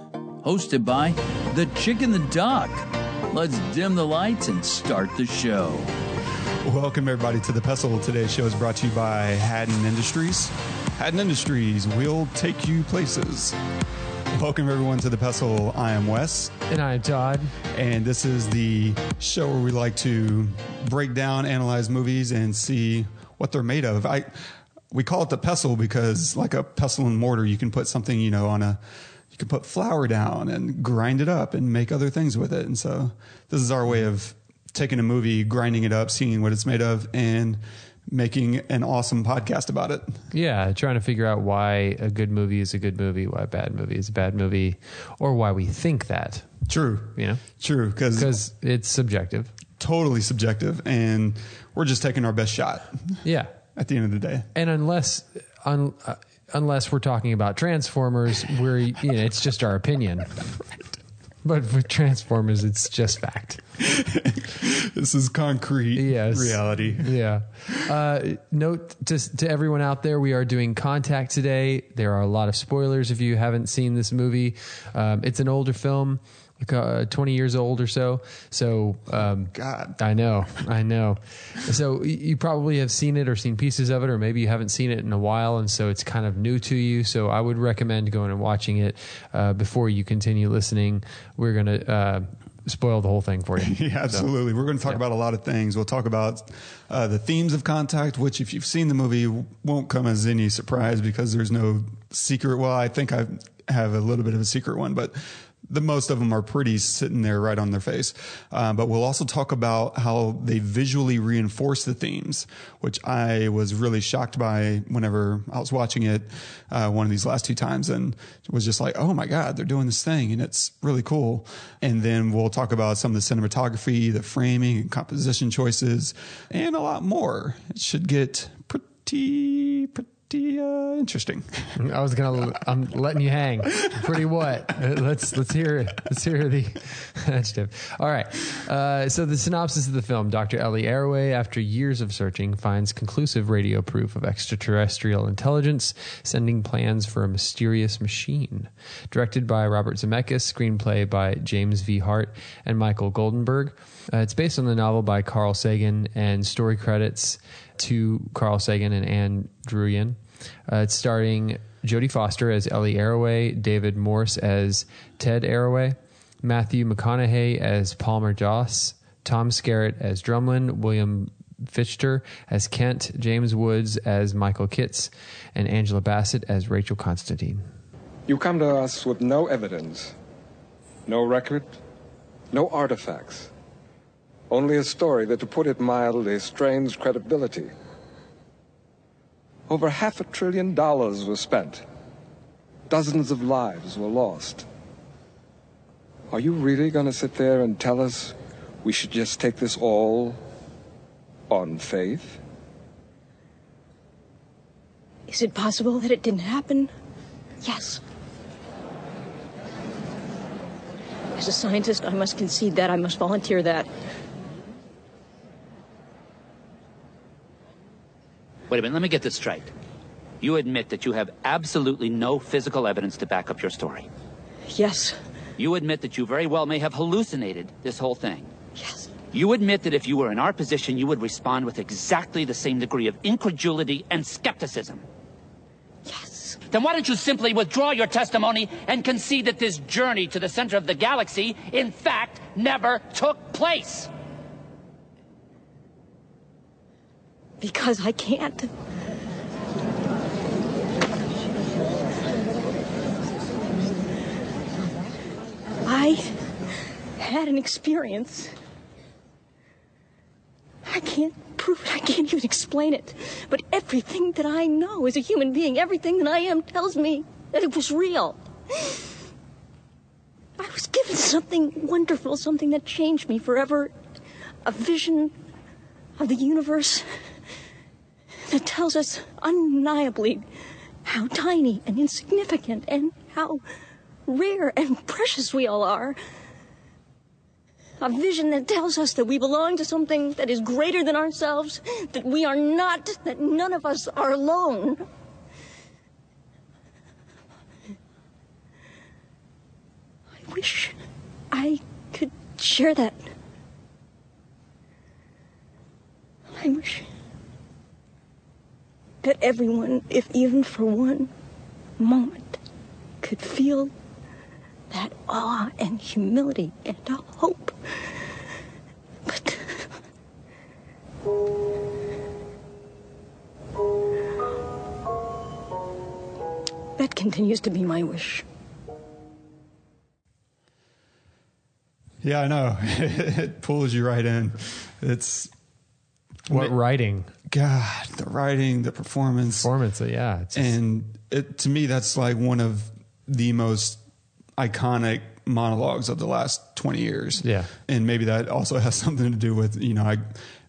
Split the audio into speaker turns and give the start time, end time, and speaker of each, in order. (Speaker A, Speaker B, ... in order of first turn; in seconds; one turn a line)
Speaker A: 0.4-5.9
Speaker B: 6.6-13.6
Speaker B: 14.3-16.5
Speaker C: 16.7-17.5
Speaker B: 17.7-28.8
Speaker B: 29.3-40.2
Speaker C: 40.3-46.5
Speaker B: 46.7-48.3
Speaker C: 47.1-47.4
Speaker C: 48.1-49.5
Speaker B: 49.8-54.5
Speaker C: 53.2-53.5
Speaker C: 54.5-60.5
Speaker C: 61.4-63.6
Speaker B: 63.8-67.1
Speaker C: 65.9-94.3
Speaker B: 79.2-80.0
Speaker B: 93.6-131.7
Speaker C: 131.8-177.7
Speaker B: 133.9-134.2
Speaker D: 178.3-180.1
Speaker D: 181.1-181.8
Speaker D: 182.5-183.5
Speaker D: 184.5-187.7
Speaker D: 189.7-191.8
Speaker D: 192.9-194.7
Speaker D: 196.3-200.4
Speaker D: 201.5-202.4
Speaker E: 205.3-206.9
Speaker E: 207.6-208.0
Speaker E: 211.3-213.9
Speaker F: 218.7-219.7
Speaker F: 220.4-224.1
Speaker E: 224.7-225.2
Speaker F: 225.6-228.5
Speaker E: 228.8-229.1
Speaker F: 229.3-235.0
Speaker E: 236.1-236.6
Speaker F: 236.7-244.1
Speaker E: 247.6-248.7
Speaker E: 255.8-256.3
Speaker E: 257.2-258.5
Speaker E: 260.8-269.0
Speaker E: 270.6-273.9
Speaker E: 274.6-275.3
Speaker E: 276.2-277.1
Speaker E: 278.5-280.4
Speaker E: 281.0-283.6
Speaker E: 284.3-286.2
Speaker E: 288.0-295.0
Speaker E: 300.4-301.0
Speaker E: 301.5-303.2
Speaker E: 306.6-307.1
Speaker E: 309.2-311.3
Speaker E: 312.0-312.6
Speaker E: 313.2-313.9
Speaker E: 314.9-317.8
Speaker E: 319.2-319.9
Speaker E: 327.0-328.4
Speaker B: 332.2-335.5
Speaker B: 336.5-336.8
Speaker C: 336.5-337.3
Speaker B: 337.5-339.7
Speaker C: 339.6-340.8
Speaker B: 340.5-344.0
Speaker B: 344.6-350.4
Speaker C: 347.4-347.7